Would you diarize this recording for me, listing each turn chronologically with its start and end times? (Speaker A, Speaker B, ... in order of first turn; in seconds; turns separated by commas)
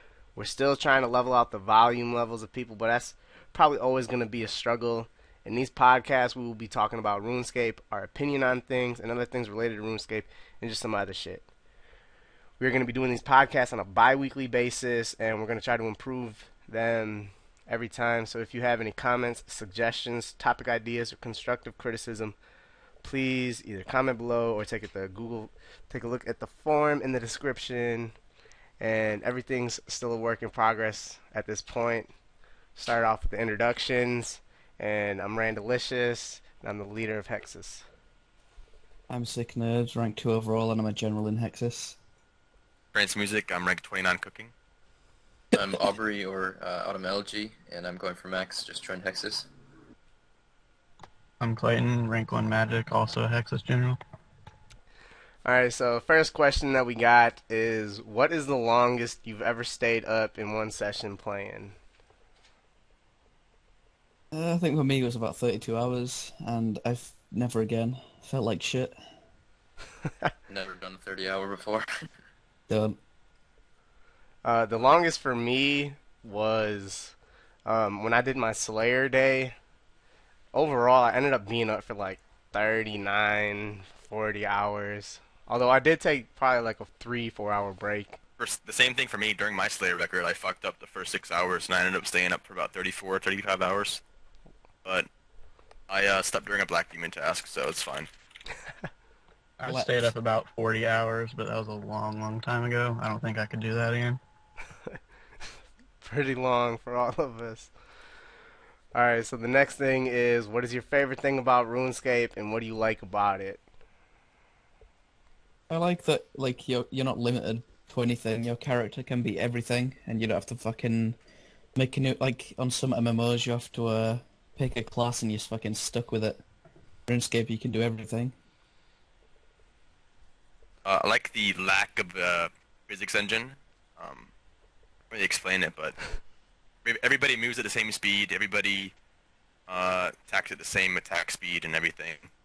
Speaker A: 0.4-11.4, Speaker A: 12.6-22.4, Speaker A: 23.0-28.2, Speaker A: 28.8-32.1, Speaker A: 32.8-37.9, Speaker B: 39.1-42.0, Speaker C: 42.9-44.5, Speaker D: 45.5-49.5, Speaker E: 51.4-54.0, Speaker A: 55.5-61.8, Speaker B: 64.3-69.0, Speaker D: 70.5-72.1, Speaker B: 72.7-73.0, Speaker A: 74.4-79.5, Speaker A: 80.5-88.2, Speaker C: 88.4-94.0, Speaker C: 95.9-98.1, Speaker E: 99.6-104.2, Speaker B: 99.6-100.1, Speaker A: 106.0-107.7, Speaker A: 108.9-113.6, Speaker B: 115.7-121.2, Speaker B: 121.8-126.4, Speaker B: 127.1-128.3, Speaker C: 130.8-134.3, Speaker C: 135.1-136.1, Speaker C: 136.8-138.9, Speaker C: 139.7-142.3